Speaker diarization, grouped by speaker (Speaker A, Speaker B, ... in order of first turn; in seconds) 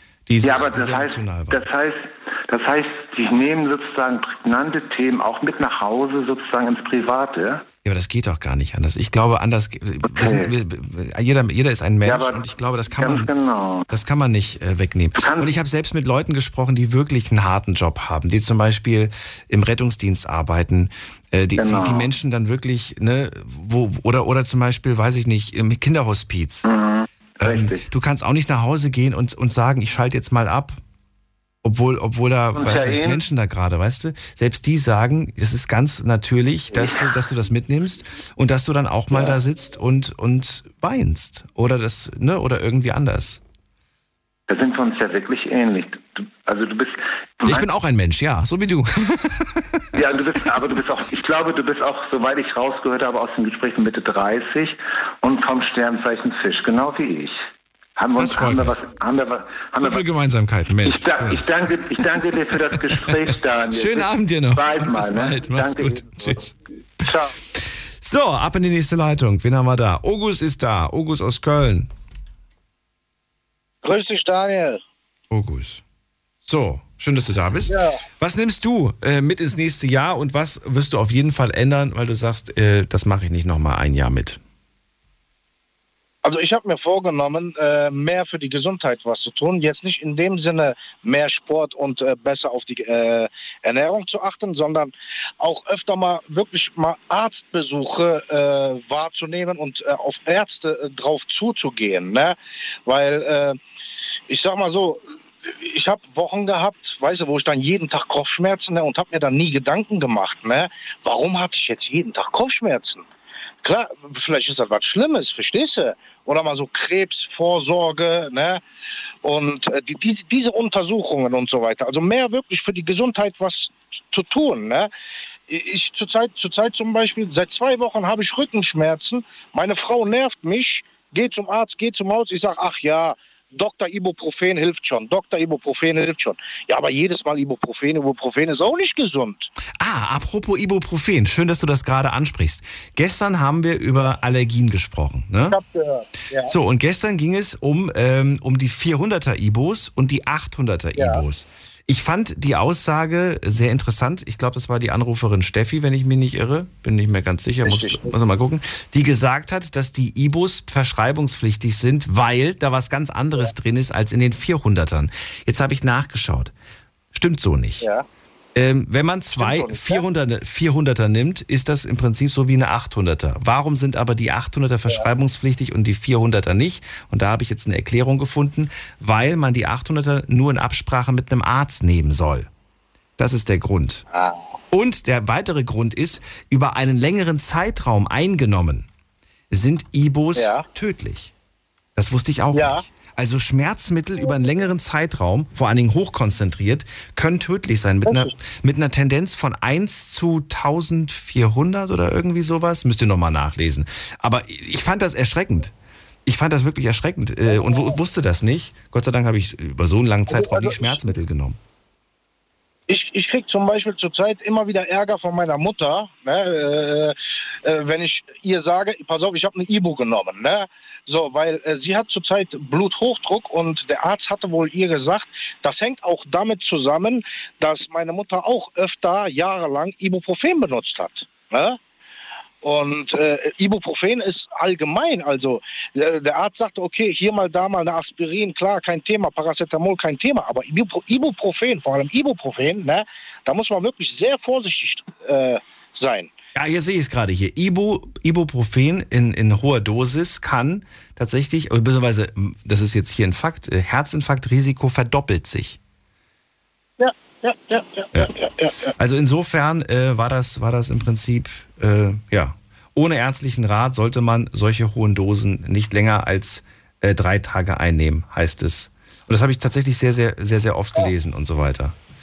Speaker A: 0.3-1.6, 7.8-13.3, 13.9-26.7, 27.4-30.8, 31.6-43.4, 47.4-50.0, 58.2-58.8, 59.8-61.7, 62.9-66.5, 67.6-71.9, 75.3-75.8, 76.4-84.4, 139.8-145.6, 146.5-166.5, 167.1-167.8, 168.5-182.5, 183.2-184.1, 184.7-188.9, 189.5-191.3, 191.9-205.7, 206.2-211.6, 246.5-255.8, 259.0-271.9
Speaker B: 0.4-7.6, 10.1-10.5, 12.0-13.9, 15.2-15.5, 21.6-22.1, 26.6-27.8, 32.6-33.2, 44.5-47.6, 49.9-57.4, 58.0-60.0, 60.8-66.5
Speaker C: 73.8-74.8, 77.7-78.0, 86.2-103.6, 104.3-113.0, 113.6-118.6, 119.2-124.9, 125.5-139.5, 145.5-146.6, 150.9-151.2, 157.6-158.2, 167.8-168.1, 169.4-170.0, 190.3-190.7, 192.5-192.8, 198.1-198.3, 207.5-207.9, 210.3-211.0, 212.9-231.8, 232.6-246.3, 257.0-258.9